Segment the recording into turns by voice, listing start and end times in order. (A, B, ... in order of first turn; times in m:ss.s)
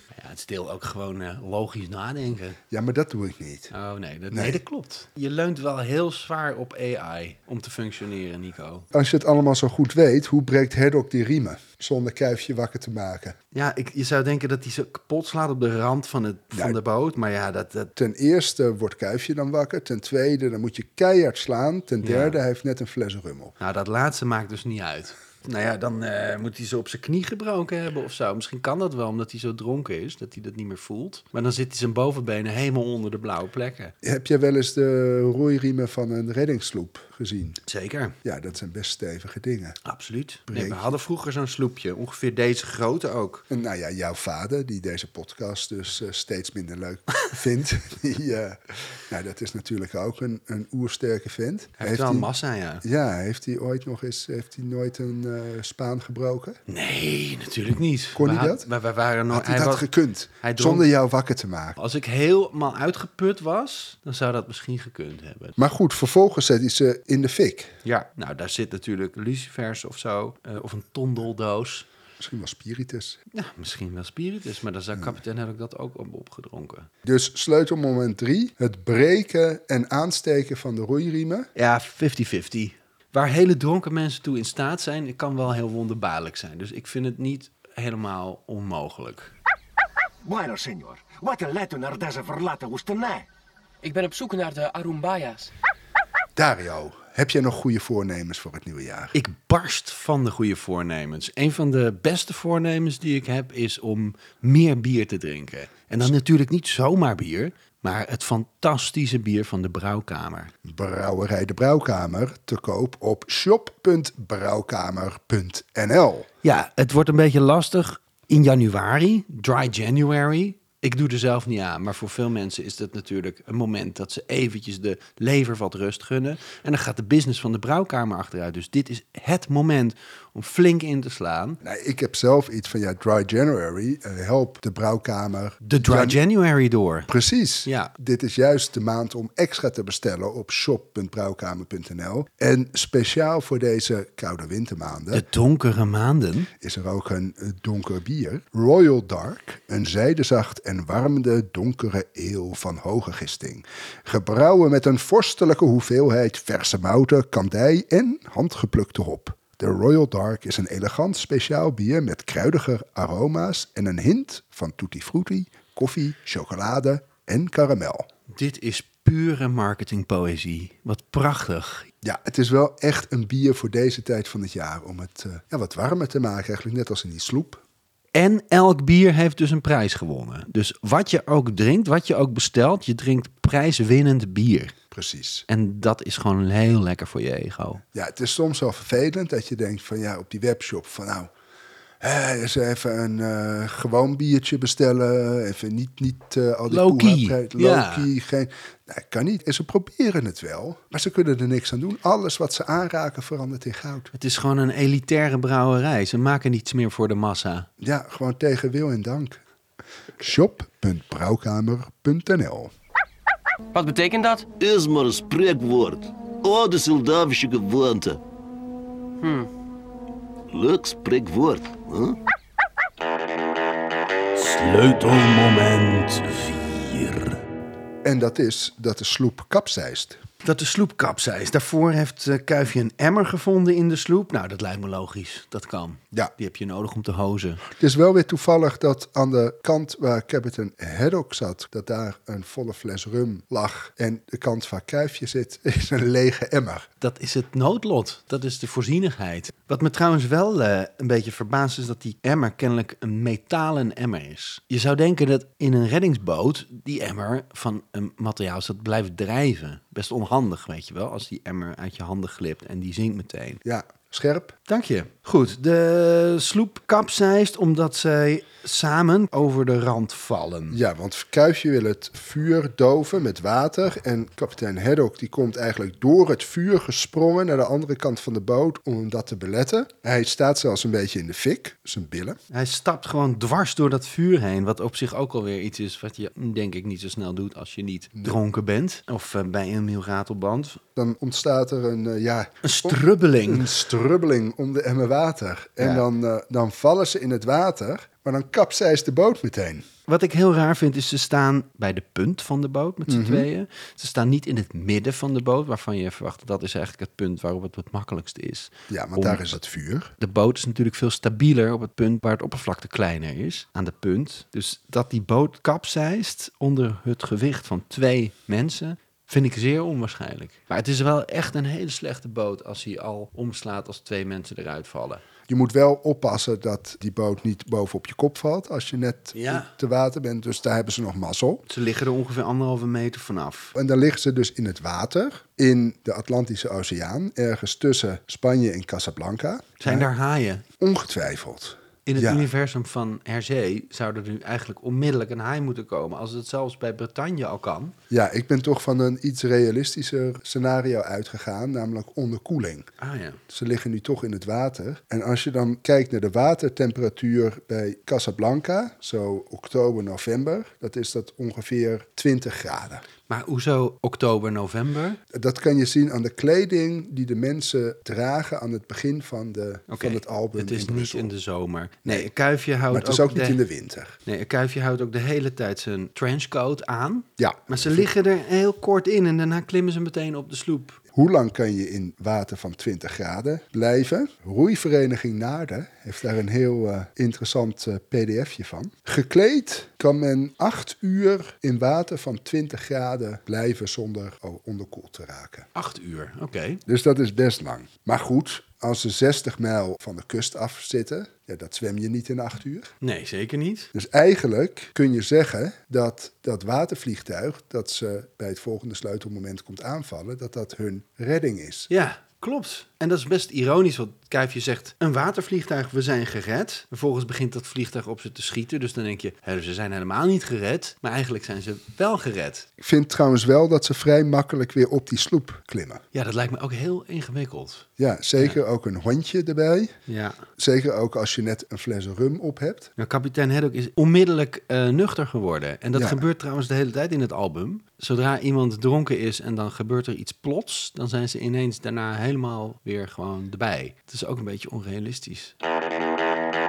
0:00.1-0:02.6 A
0:02.7-0:03.7 B
0:03.7-0:08.8 A
0:04.3-0:04.6 B
0:08.9-0:13.4 B
0:13.5-0:17.9 A
0:18.0-0:23.6 B
0:22.0-0:22.4 A
0:23.6-0:33.9 A
0:34.0-0:37.6 B
0:37.7-0:38.2 A
0:38.2-0:39.8 B
0:39.8-0:43.4 A
0:40.5-0:40.9 B
0:43.5-0:52.3 B
0:51.8-0:52.8 A
0:52.8-0:56.6 B
0:56.7-0:59.9 A
0:58.1-0:58.7 B
0:59.3-1:01.8 B
1:00.4-1:00.9 A
1:01.8-1:05.6 A
1:05.6-1:07.7 B
1:07.8-1:11.9 A
1:12.2-1:13.2 B
1:13.3-1:16.9 A
1:17.0-1:21.5 B
1:21.6-1:29.3 A
1:30.2-1:33.2 C
1:33.8-1:35.5 D
1:36.4-1:39.1 B
1:39.1-1:50.5 A
1:50.6-1:56.3 B
1:56.4-2:11.6 A
2:11.6-2:16.2 B
2:15.6-2:17.1 A
2:17.1-2:25.2 B
2:17.6-2:17.9 A
2:25.1-2:26.5 A
2:26.6-2:48.1 B
2:48.3-2:51.9 A
2:52.0-2:57.6 B
2:58.1-3:04.7 A
3:04.9-3:05.4 B
3:05.5-3:07.8 A
3:07.9-3:11.3 B
3:12.0-3:24.1 B
3:16.7-3:18.1 A
3:24.1-3:27.7 A
3:27.8-3:29.4 B
3:30.2-3:32.7 B
3:33.7-3:34.5 D
3:34.6-3:38.2 E
3:39.2-3:39.5 D
3:40.5-3:42.2 E
3:44.3-3:47.4 A
3:48.0-3:50.2 B
3:50.4-3:57.6 A
3:57.6-4:06.9 B
4:07.0-4:23.6 A
4:23.6-4:24.6 B
4:24.7-4:30.8 A
4:30.7-4:42.4 B
4:42.5-4:50.8 A
4:51.0-4:59.8 B
4:52.6-4:53.7 A
4:55.8-4:56.0 A
5:00.1-5:09.6 A
5:03.1-5:03.5 B
5:08.9-5:10.1 B
5:10.2-5:25.2 A
5:25.5-5:31.6 B
5:29.3-5:29.7 A
5:31.7-5:33.7 A
5:33.7-5:40.1 B
5:39.8-5:40.6 A
5:40.8-5:42.5 B
5:42.0-5:47.9 A
5:48.1-5:52.9 B
5:53.0-5:53.4 A
5:53.5-6:03.0 B
6:03.3-6:05.2 A
6:05.3-6:11.3 B
6:09.9-6:13.6 A
6:12.9-6:14.2 B
6:14.2-6:21.0 A
6:17.4-6:18.1 B
6:21.1-6:35.7 B
6:35.7-6:36.8 A
6:36.8-6:42.9 B
6:43.0-6:43.9 A
6:43.9-6:51.9 B
6:51.9-7:02.7 A
7:02.8-7:06.0 B
7:06.1-7:08.6 A
7:08.0-7:09.9 B
7:10.1-7:10.4 A
7:10.6-7:12.9 B
7:13.0-7:25.5 A
7:15.9-7:16.2 B